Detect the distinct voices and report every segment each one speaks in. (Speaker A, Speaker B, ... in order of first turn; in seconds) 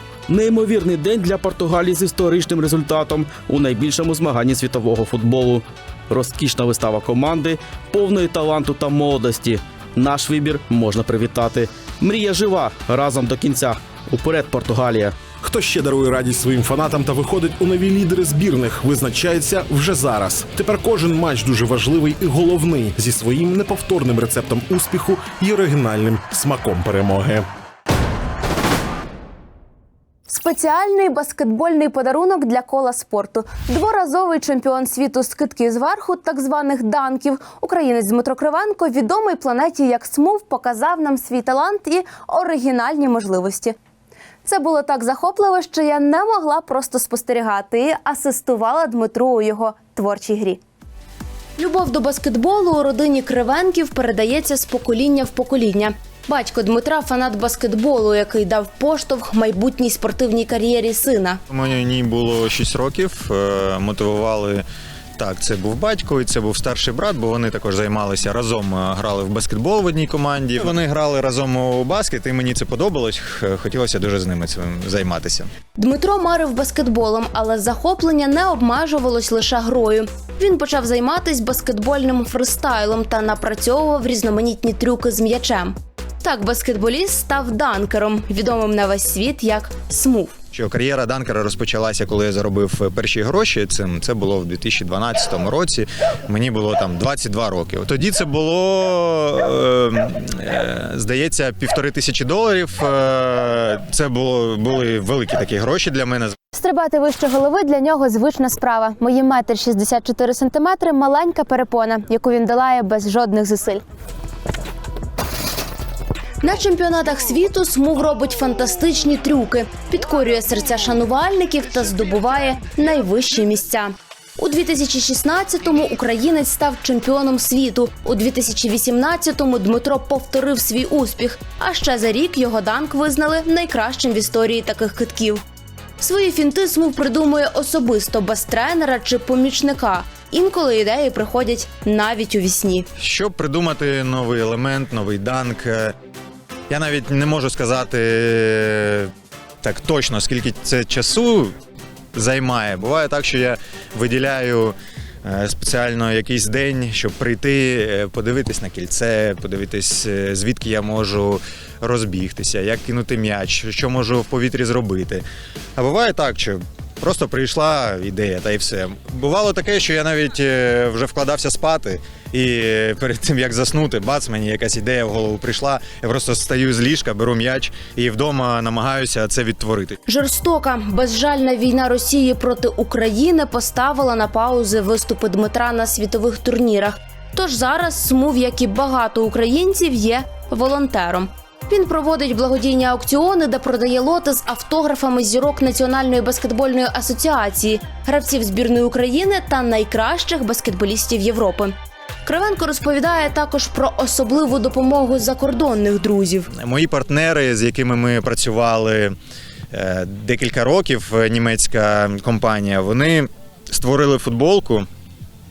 Speaker A: 0.3-15.2
Speaker B: 15.4-27.5
Speaker C: 30.3-43.8, 44.4-50.6, 51.6-61.4, 75.8-90.3, 106.5-113.8, 116.4-135.4, 136.0-142.9, 180.1-206.5
Speaker D: 61.5-64.6, 65.2-75.5, 90.5-106.3, 143.0-145.9, 146.7-149.1, 149.6-151.5, 152.1-165.2, 165.8-180.0, 206.6-209.1, 209.7-214.9